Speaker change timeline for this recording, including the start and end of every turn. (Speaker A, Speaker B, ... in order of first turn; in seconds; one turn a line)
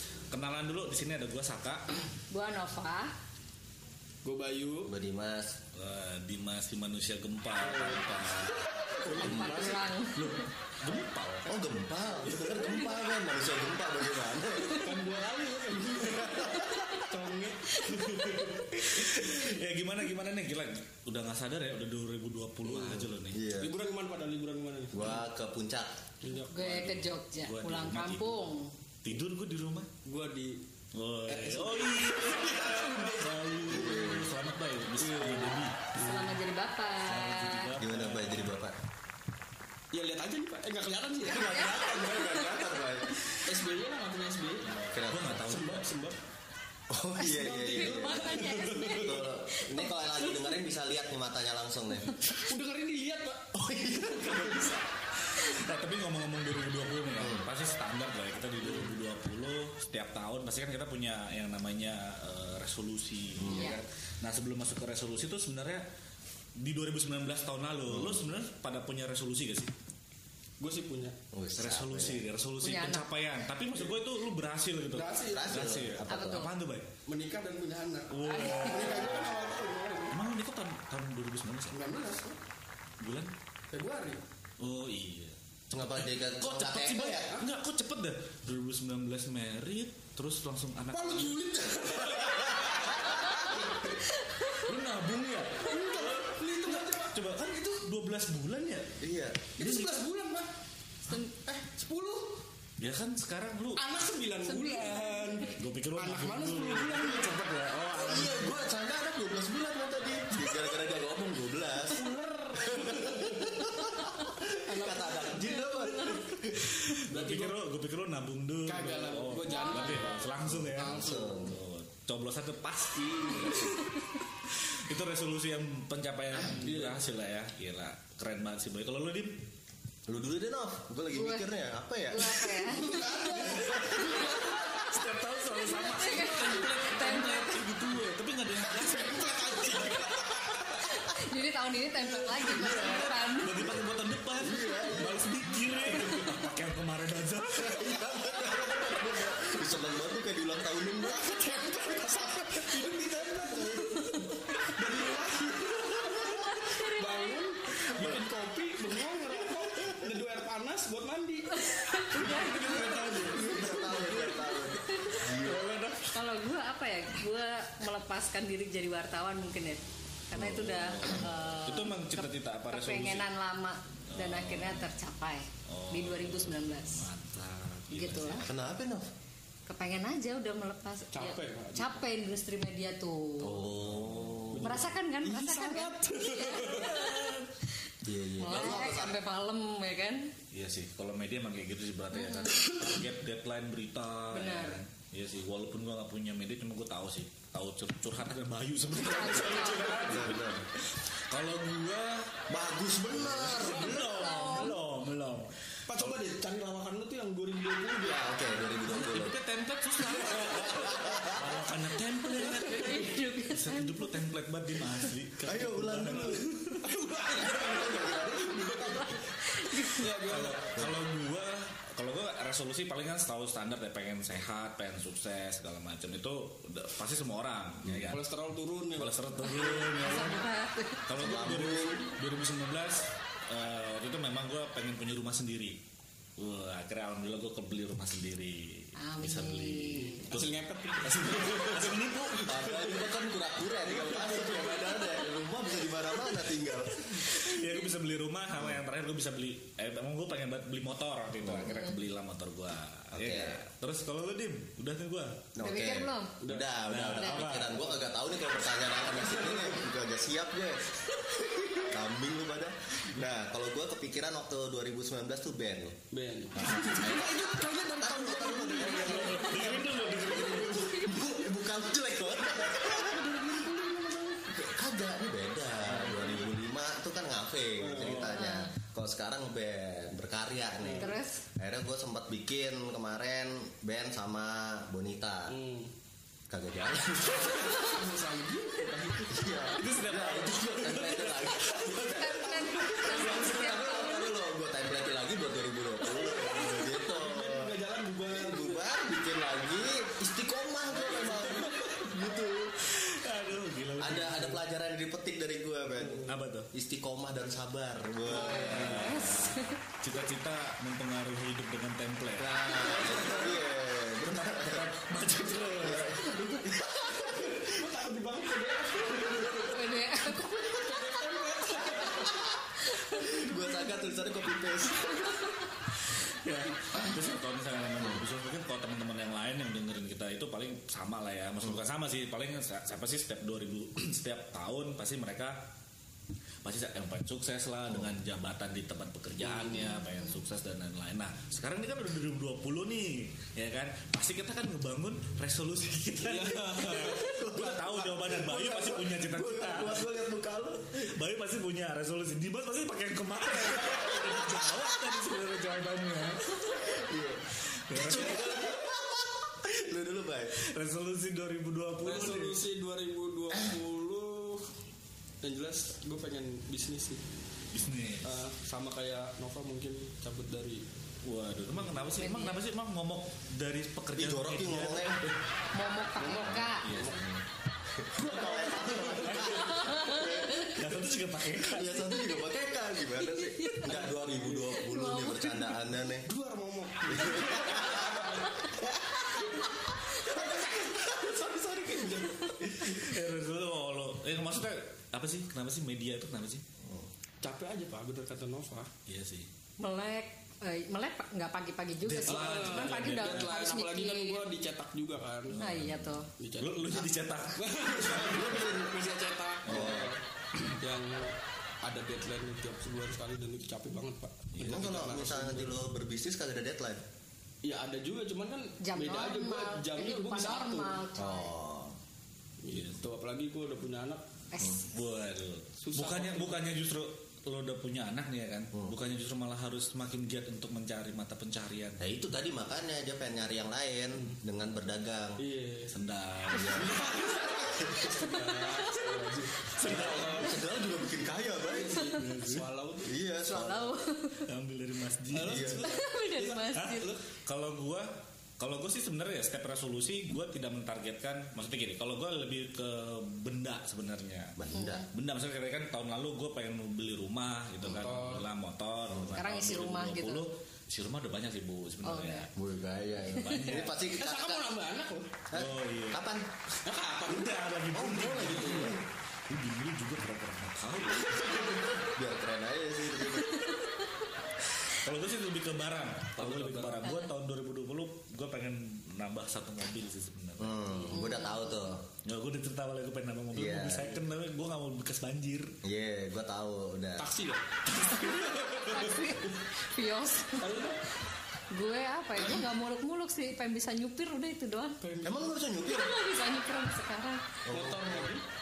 Speaker A: 0.3-1.9
Speaker B: 2.3-3.1
Speaker C: 4.2-4.9
Speaker D: 4.8-5.6
Speaker A: 5.7-9.5
Speaker C: 7.6-9.9
Speaker B: 9.2-10.4
Speaker D: 9.2-9.7
Speaker A: 10.1-11.5
Speaker D: 11.5-14.9
Speaker C: 12.3-13.0
Speaker C: 14.7-19.3
Speaker D: 16.0-17.0
Speaker B: 17.8-18.4
Speaker A: 17.9-23.4
Speaker C: 22.6-25.2
Speaker D: 23.3-23.7
Speaker D: 24.9-26.0
Speaker C: 26.2-26.9
Speaker B: 26.5-28.7
Speaker A: 26.6-28.4
Speaker A: 29.0-29.9
Speaker C: 30.0-30.6
Speaker A: 30.9-35.8
Speaker C: 31.3-33.8
Speaker D: 33.7-34.3
Speaker C: 35.0-36.4
Speaker B: 35.9-37.7
Speaker A: 37.0-38.6
Speaker D: 37.8-38.8
Speaker C: 39.9-41.5
Speaker D: 41.2-43.2
Speaker B: 41.3-42.6
Speaker C: 43.4-44.8
Speaker A: 44.8-45.8
Speaker D: 44.9-45.5
Speaker C: 45.5-46.2
Speaker D: 46.9-52.2
Speaker B: 47.2-49.6
Speaker C: 47.2-50.4
Speaker C: 52.3-53.5
Speaker D: 53.5-54.7
Speaker C: 54.0-54.9
Speaker A: 55.2-65.9
Speaker D: 57.2-57.5
Speaker D: 63.4-63.8
Speaker B: 63.5-63.8
Speaker A: 66.5-69.7
Speaker D: 67.9-68.2
Speaker C: 70.6-71.2
Speaker D: 71.3-72.2
Speaker A: 71.6-76.9
Speaker B: 72.6-73.1
Speaker C: 74.8-75.7
Speaker D: 75.2-76.5
Speaker B: 76.1-76.5
Speaker C: 77.0-80.2
Speaker A: 78.1-79.3
Speaker B: 78.4-78.8
Speaker A: 80.1-81.8
Speaker C: 81.7-82.4
Speaker A: 83.0-83.3
Speaker C: 83.7-84.2
Speaker A: 84.6-85.3
Speaker D: 85.7-87.3
Speaker A: 86.0-91.4
Speaker C: 90.9-94.0
Speaker B: 94.2-94.6
Speaker A: 94.7-99.0
Speaker C: 95.6-97.2
Speaker D: 99.0-99.5
Speaker C: 99.6-100.5
Speaker A: 99.6-100.0
Speaker C: 101.6-102.4
Speaker A: 102.8-103.8
Speaker C: 103.7-108.0
Speaker B: 104.6-105.2
Speaker A: 105.5-108.5
Speaker D: 107.9-116.7
Speaker C: 111.9-113.7
Speaker C: 114.4-115.8
Speaker B: 115.6-116.2
Speaker A: 116.5-129.4
Speaker C: 117.1-117.6
Speaker C: 118.7-121.5
Speaker B: 119.5-120.0
Speaker D: 120.5-121.6
Speaker C: 126.3-127.0
Speaker D: 130.1-132.9
Speaker B: 131.1-131.5
Speaker B: 132.1-133.2
Speaker C: 132.7-138.0
Speaker D: 133.5-134.1
Speaker A: 134.3-140.0
Speaker B: 135.5-137.6
Speaker C: 138.7-141.0
Speaker B: 140.9-143.6
Speaker D: 142.4-143.8
Speaker A: 142.5-148.0
Speaker D: 144.4-145.3
Speaker D: 147.6-151.3
Speaker C: 148.3-149.6
Speaker C: 150.9-164.4
Speaker B: 156.4-157.4
Speaker B: 161.5-163.6
Speaker D: 163.1-165.7
Speaker B: 164.9-165.2
Speaker A: 165.3-166.1
Speaker B: 166.1-177.1
Speaker D: 170.3-171.2
Speaker A: 170.3-173.3
Speaker A: 174.1-174.9
Speaker A: 175.7-178.6
Speaker B: 177.9-178.4
Speaker D: 178.4-179.1
Speaker B: 179.7-183.7
Speaker C: 181.1-182.0
Speaker D: 183.4-184.9
Speaker A: 183.8-184.6
Speaker C: 184.5-187.5
Speaker B: 184.6-187.4
Speaker D: 188.0-189.2
Speaker B: 188.4-190.3
Speaker A: 190.5-202.4
Speaker B: 192.1-192.5
Speaker B: 194.3-194.8
Speaker B: 199.0-200.1
Speaker D: 199.9-200.7
Speaker D: 202.5-204.0
Speaker A: 203.1-206.2
Speaker C: 203.6-204.7
Speaker B: 203.9-204.8
Speaker C: 205.9-208.5
Speaker D: 208.0-209.4
Speaker A: 208.8-216.8
Speaker C: 210.2-211.0
Speaker D: 210.7-211.4
Speaker C: 212.3-212.9
Speaker B: 212.5-214.2
Speaker D: 215.4-216.5
Speaker C: 216.1-219.2
Speaker D: 217.2-219.2
Speaker B: 219.4-220.1
Speaker C: 219.8-220.7
Speaker A: 220.2-228.2
Speaker C: 228.1-230.0
Speaker A: 228.9-230.4
Speaker B: 229.9-231.0
Speaker A: 231.1-235.8
Speaker D: 231.2-232.1
Speaker A: 236.4-242.9
Speaker B: 239.0-240.3
Speaker C: 240.3-243.1
Speaker D: 242.4-247.5
Speaker C: 243.8-245.3
Speaker A: 247.0-255.5
Speaker D: 251.4-251.8
Speaker B: 251.7-251.9
Speaker D: 253.1-253.6
Speaker D: 255.5-266.0
Speaker B: 255.6-256.3
Speaker C: 256.4-256.7
Speaker A: 256.9-257.8
Speaker B: 257.2-257.6
Speaker C: 257.7-258.0
Speaker C: 259.1-259.8
Speaker C: 266.1-270.6
Speaker D: 266.6-267.2
Speaker A: 266.6-267.2
Speaker D: 267.9-273.3
Speaker A: 268.8-271.1
Speaker C: 272.5-274.6
Speaker D: 274.5-285.6
Speaker C: 275.9-276.5
Speaker C: 277.8-278.4
Speaker B: 278.3-278.7
Speaker C: 280.8-281.1
Speaker B: 281.0-281.4
Speaker C: 285.5-285.9
Speaker D: 286.5-287.9
Speaker C: 287.3-289.3
Speaker D: 289.2-297.8
Speaker A: 289.7-291.5
Speaker C: 291.5-294.0
Speaker B: 291.9-294.3
Speaker C: 296.3-298.8
Speaker A: 296.5-296.7
Speaker D: 298.3-302.9
Speaker C: 300.9-302.1
Speaker A: 302.8-304.6
Speaker D: 304.0-309.3
Speaker C: 306.0-306.3
Speaker A: 306.2-306.7
Speaker C: 308.2-309.2
Speaker A: 308.4-313.6
Speaker B: 308.7-309.8
Speaker D: 312.4-314.9
Speaker C: 312.7-313.6
Speaker A: 314.2-316.3
Speaker D: 315.8-317.7
Speaker C: 317.1-322.6
Speaker B: 319.6-320.5
Speaker D: 322.0-325.5
Speaker B: 322.9-323.7
Speaker B: 325.3-325.6
Speaker A: 326.2-335.7
Speaker A: 336.6-350.1
Speaker C: 339.4-339.8
Speaker C: 346.2-348.3
Speaker D: 347.1-351.1
Speaker A: 350.9-356.9
Speaker D: 356.7-360.6
Speaker A: 357.9-358.7
Speaker A: 360.5-362.6
Speaker C: 362.0-364.7
Speaker C: 365.4-367.2
Speaker A: 367.7-368.4
Speaker C: 368.2-370.8
Speaker A: 371.2-375.4
Speaker B: 372.1-372.6
Speaker D: 374.1-375.2
Speaker B: 375.7-376.9
Speaker C: 376.2-377.2
Speaker A: 376.8-377.4
Speaker D: 377.9-381.0
Speaker C: 378.1-379.7
Speaker A: 379.1-382.2
Speaker B: 379.8-380.3
Speaker D: 381.6-386.3
Speaker B: 383.3-383.9
Speaker C: 383.8-384.8
Speaker B: 384.8-385.7
Speaker C: 386.2-388.6
Speaker D: 387.1-389.4
Speaker C: 389.2-392.9
Speaker A: 392.6-396.6
Speaker D: 396.8-397.1
Speaker C: 397.4-398.9
Speaker A: 399.1-399.5
Speaker B: 399.8-404.4
Speaker A: 402.0-403.5
Speaker C: 402.3-405.6
Speaker A: 405.5-408.7
Speaker B: 405.6-406.3
Speaker C: 406.4-415.7
Speaker D: 408.4-408.7
Speaker A: 409.6-410.1
Speaker D: 409.6-410.1
Speaker A: 414.5-414.9
Speaker D: 414.6-417.0
Speaker C: 417.6-421.0
Speaker B: 418.8-421.5
Speaker D: 421.2-421.9
Speaker C: 422.6-424.2
Speaker A: 422.7-423.0
Speaker B: 424.5-424.9
Speaker A: 424.9-432.0
Speaker C: 425.8-426.6
Speaker D: 432.0-435.4
Speaker C: 435.4-435.9
Speaker A: 435.9-436.9
Speaker D: 436.5-436.9
Speaker C: 436.7-440.6
Speaker B: 438.3-439.3
Speaker A: 439.8-440.5
Speaker D: 439.8-442.2
Speaker C: 441.7-443.2
Speaker A: 442.1-442.6
Speaker D: 443.0-444.0
Speaker B: 443.5-444.5
Speaker A: 444.4-445.8
Speaker C: 445.3-447.2
Speaker D: 445.4-445.9
Speaker B: 445.8-447.1
Speaker A: 446.7-462.5
Speaker D: 454.6-455.1
Speaker C: 457.9-458.5
Speaker D: 459.1-459.4
Speaker B: 459.4-460.4
Speaker B: 462.0-462.5
Speaker D: 462.5-464.7
Speaker A: 463.3-464.0
Speaker C: 464.1-465.3
Speaker D: 465.5-466.5
Speaker A: 465.5-466.2
Speaker C: 466.8-469.0
Speaker A: 467.2-471.5
Speaker D: 467.9-469.1
Speaker C: 471.1-472.1
Speaker D: 472.0-473.7
Speaker B: 473.5-474.0
Speaker A: 474.9-480.9
Speaker C: 476.4-477.2
Speaker D: 480.6-482.1
Speaker B: 481.1-481.7
Speaker A: 482.2-485.7
Speaker D: 483.5-484.2
Speaker D: 485.8-487.3
Speaker C: 487.2-489.4
Speaker B: 488.1-490.7
Speaker C: 490.5-491.0
Speaker B: 491.7-495.0
Speaker C: 495.0-495.6
Speaker D: 495.2-496.1
Speaker B: 495.8-497.4
Speaker D: 497.6-498.3
Speaker C: 497.7-498.4